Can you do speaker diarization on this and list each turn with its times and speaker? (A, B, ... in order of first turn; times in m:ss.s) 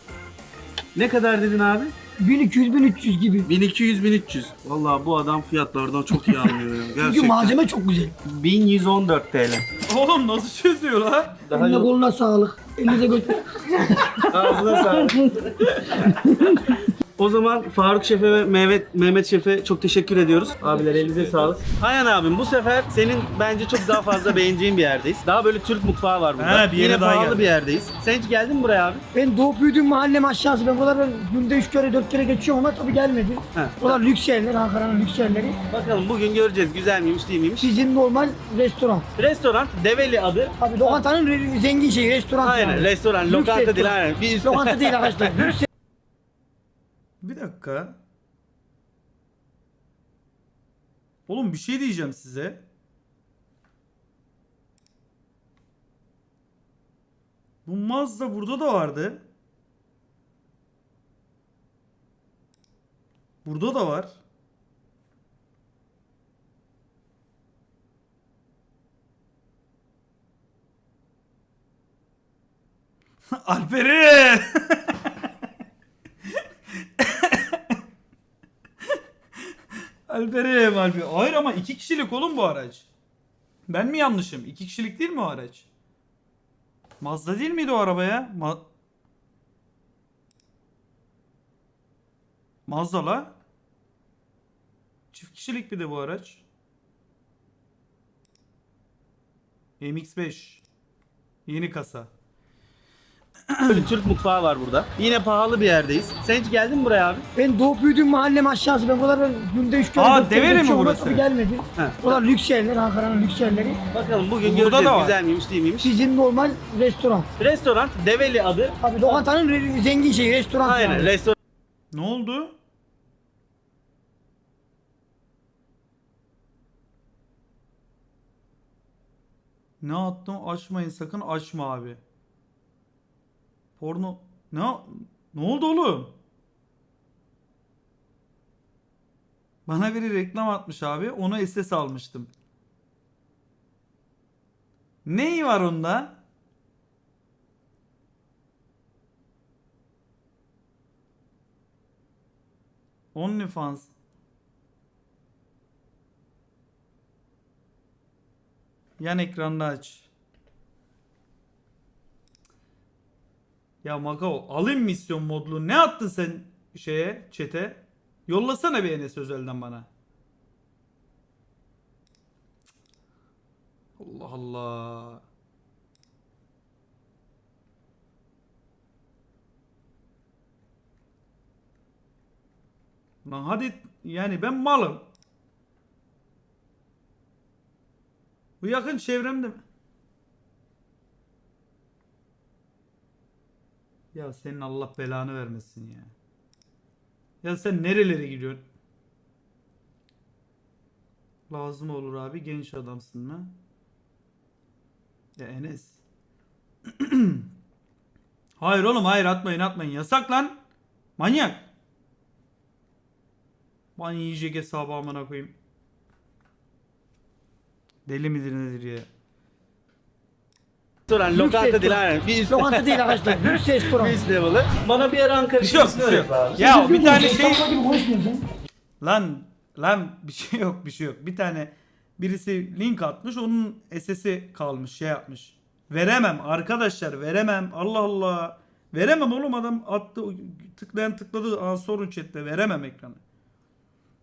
0:00.9-0:01.9 A
0:02.2-0:03.5 B
0:03.5-0:07.6 A
0:07.0-0:08.1 B
0:08.3-0:09.6 A
0:09.9-0:11.4 C
0:11.5-0:11.9 A
0:11.5-0:14.3 B
0:14.3-0:29.0 A
0:26.4-0:27.5 C
0:29.1-0:35.6 B
0:33.6-0:34.0 A
0:35.7-0:37.7 A
0:37.6-0:39.1 B
0:39.2-0:41.0 A
0:40.6-0:45.6 B
0:42.4-0:45.5 A
0:47.2-0:48.0 C
0:51.3-0:52.6 C
0:57.6-0:59.2 C
1:03.4-1:04.2 C
1:13.4-1:14.9 C
1:17.0-1:17.8 C
1:20.1-1:22.8 C
1:23.7-1:25.6 C
1:27.0-1:28.6 C
1:32.7-1:33.3 C
1:35.1-1:36.4 C
1:39.8-1:40.6 C
1:41.5-1:42.1 C
1:43.5-1:43.9 C
1:43.7-1:47.3 A
1:47.4-1:53.8 B
1:50.0-1:51.2 C
1:51.8-1:52.3 A
1:53.9-1:55.9 A
1:54.4-1:55.2 C
1:55.8-1:57.3 B
1:57.4-1:59.2 A
1:58.8-2:01.1 B
2:00.6-2:01.4 A
2:01.9-2:02.6 C
2:09.8-2:12.0 C
2:13.8-2:16.1 C
2:19.7-2:22.3 C
2:25.1-2:26.2 C
2:33.1-2:33.9 C
2:39.0-2:40.1 C
2:43.8-2:49.9 C
2:54.0-2:55.2 C
3:03.2-3:05.0 C
3:08.6-3:09.6 C
3:14.1-3:16.1 C
3:17.4-3:18.6 C
3:21.5-3:23.5 C
3:25.4-3:26.0 C
3:27.0-3:27.5 C
3:28.6-3:30.6 C
3:31.2-3:31.7 C
3:34.0-3:35.5 C
3:38.1-3:39.1 C
3:41.1-3:46.6 A
3:41.3-3:44.2 B
3:45.6-3:47.7 C
3:46.6-3:48.4 B
3:49.0-4:03.2 C